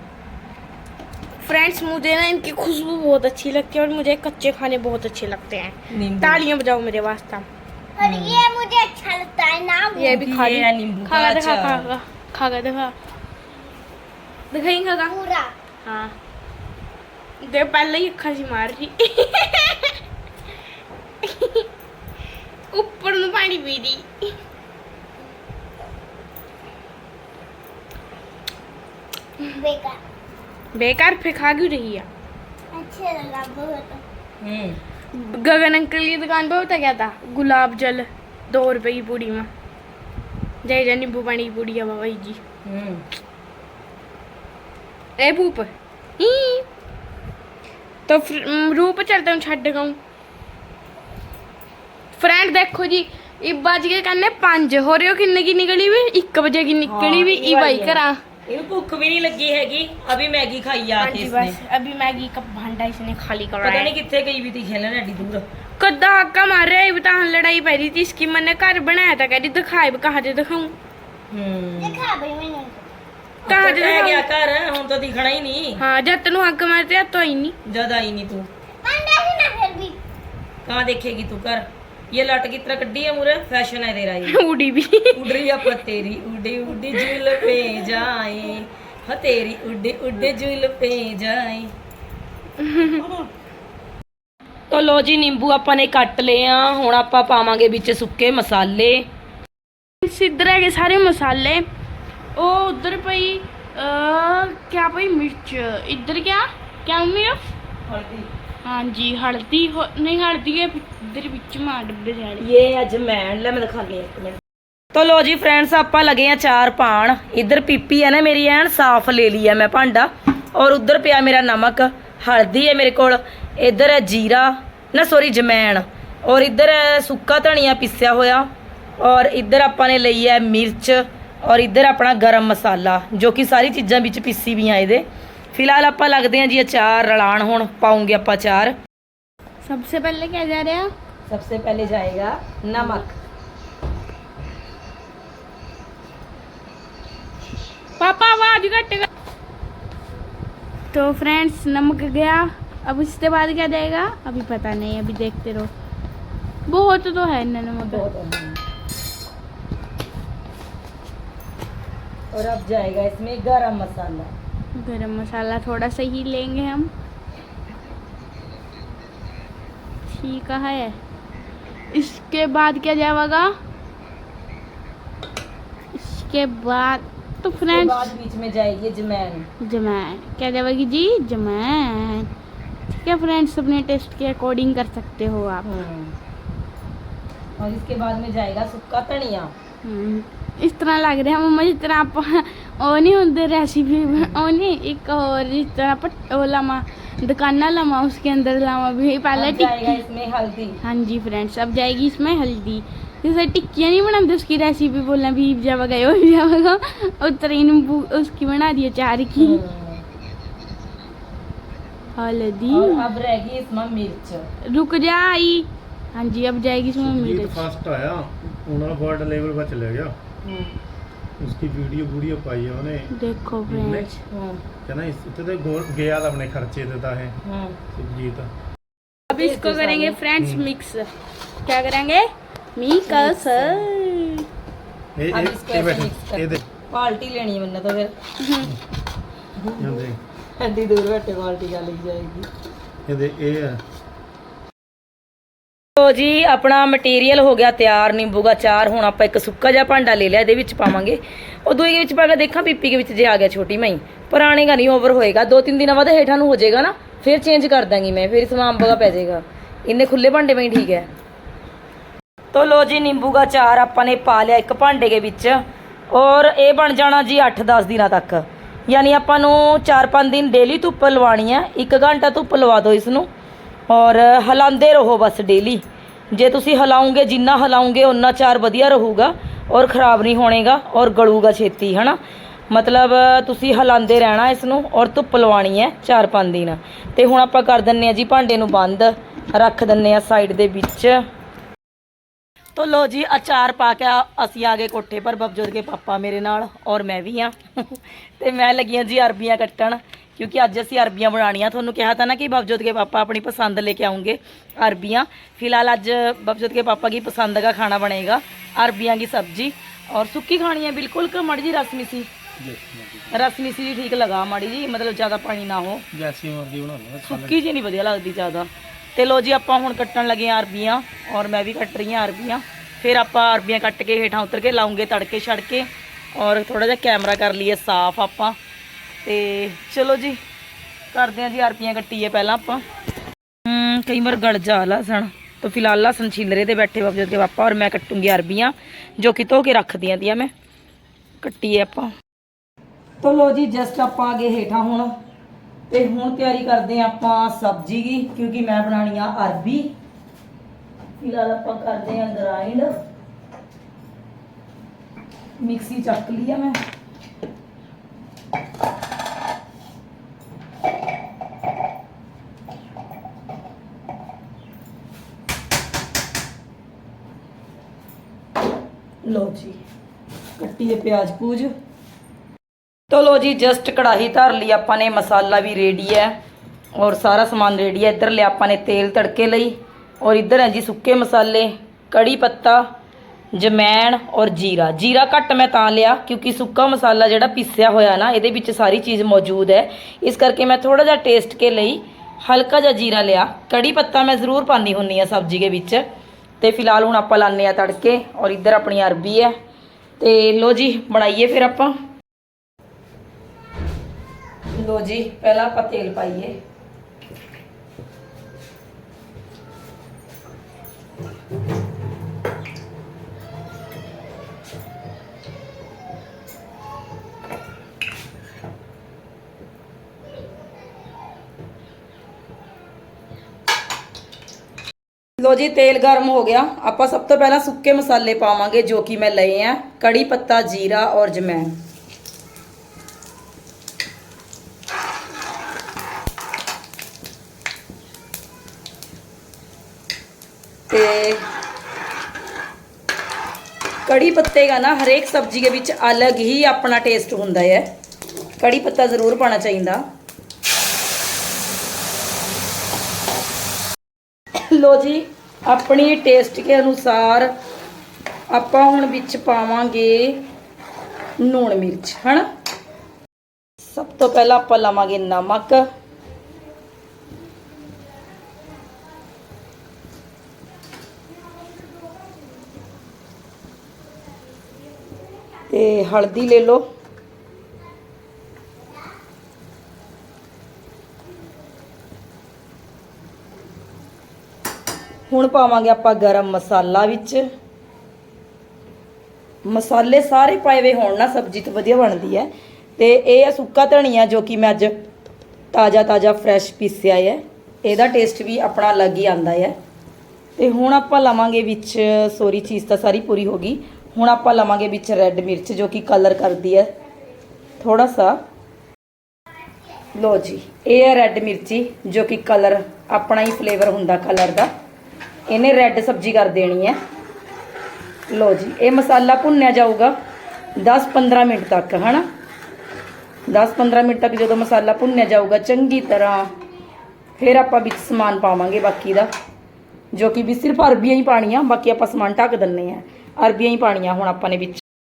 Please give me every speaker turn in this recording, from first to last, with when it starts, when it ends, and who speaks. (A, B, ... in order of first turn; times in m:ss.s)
0:01.4-0:07.4 A
0:05.9-0:06.4 B
0:08.0-0:10.2 C
0:08.0-0:08.4 B
0:09.9-0:12.9 A
0:10.0-0:11.9 B
0:14.5-0:15.2 A
0:15.1-0:15.5 C
0:15.8-0:16.1 A
0:17.4-0:20.0 A
0:21.2-0:21.7 A
0:22.7-0:24.3 A
0:29.5-0:30.0 C
0:30.7-0:32.1 A
0:32.7-0:34.0 C
0:34.4-0:34.8 B
0:35.1-0:39.5 A
0:40.6-0:42.4 A
0:42.6-0:43.0 B
0:45.2-0:46.6 A
0:48.1-0:50.0 A
0:52.1-0:58.2 A
0:56.8-1:01.6 B
1:01.0-1:03.9 A
1:03.6-1:05.4 B
1:05.8-1:10.7 A
1:11.3-1:12.0 B
1:11.8-1:12.9 C
1:13.4-1:15.8 B
1:13.5-1:14.2 A
1:15.8-1:17.6 A
1:17.6-1:18.5 B
1:18.8-1:20.0 C
1:20.6-1:24.4 B
1:24.3-1:25.7 A
1:25.1-1:31.7 B
1:26.9-1:27.6 A
1:32.6-1:33.0 A
1:32.8-1:33.2 B
1:34.7-1:39.0 B
1:40.0-1:41.6 A
1:42.3-1:47.4 A
1:47.9-1:48.3 B
1:48.6-1:52.4 A
1:52.4-1:54.4 B
1:54.9-2:08.5 B
2:09.0-2:18.7 B
2:19.6-2:20.9 A
2:21.3-2:23.1 B
2:22.8-2:23.0 A
2:28.0-2:29.1 A
2:30.9-2:35.7 A
2:36.7-2:38.0 A
2:37.8-2:38.6 B
2:42.3-2:44.3 B
2:44.7-2:46.9 A
2:50.1-2:51.0 A
2:51.9-2:53.5 A
2:55.9-2:58.1 A
2:57.6-2:59.5 B
2:59.6-3:02.3 A
3:03.0-3:05.7 A
3:05.6-3:06.1 B
3:07.6-3:09.5 B
3:09.8-3:19.9 A
3:19.3-3:20.8 B
3:20.8-3:29.6 A
3:29.4-3:30.0 B
3:32.2-3:33.0 A
3:32.7-3:34.5 B
3:34.7-3:37.7 A
3:37.0-3:40.1 D
3:40.4-3:40.7 B
3:41.4-3:43.1 D
3:43.1-3:44.2 A
3:43.7-3:44.0 D
3:44.3-3:44.6 B
3:44.9-3:47.3 D
3:47.4-3:47.8 B
3:48.0-3:48.5 D
3:49.3-3:51.1 A
3:49.3-3:50.2 B
3:50.4-3:50.6 D
3:51.6-3:54.4 A
3:53.0-3:53.9 B
3:55.2-3:56.6 D
3:55.3-3:58.1 B
3:58.4-3:58.7 A
3:59.6-4:00.0 B
3:59.8-4:00.2 D
4:00.6-4:02.5 B
4:03.0-4:03.8 D
4:06.0-4:21.1 B
4:22.5-4:33.3 B
4:33.9-4:42.2 B
4:42.7-4:51.2 B
4:52.8-5:12.3 B
5:12.6-5:13.3 D
5:13.3-5:16.0 B
5:16.1-5:17.6 D
5:17.2-5:28.6 B
5:29.2-5:30.4 B
5:31.1-5:32.8 B
5:33.6-5:40.5 B
5:41.4-5:42.1 B
5:43.2-5:45.1 B
5:45.9-5:49.9 B
5:51.2-5:52.9 B
5:55.6-5:56.8 B
6:09.2-6:09.8 B
6:10.6-6:11.7 B
6:13.1-6:16.3 B
6:17.0-6:22.8 B
6:23.5-6:36.0 B
6:36.6-6:39.5 B
6:40.2-6:42.0 B
6:44.7-6:46.6 B
7:05.4-7:11.8 B
7:20.9-7:21.4 B
7:24.0-7:27.8 B
7:28.6-7:30.0 B
7:34.7-7:37.5 B
7:38.5-7:40.4 B
7:41.4-7:42.4 B
7:43.9-7:45.8 B
7:55.7-7:56.8 B
8:05.3-8:07.4 B
8:09.6-8:14.9 B
8:15.7-8:19.7 B
8:20.6-8:26.9 B
8:27.8-8:28.4 B
8:30.1-8:34.7 B
8:35.5-8:37.0 B
8:38.3-8:40.1 B
8:40.8-8:42.2 B
8:43.5-8:46.5 B
8:47.4-8:49.3 B
8:50.1-8:54.8 B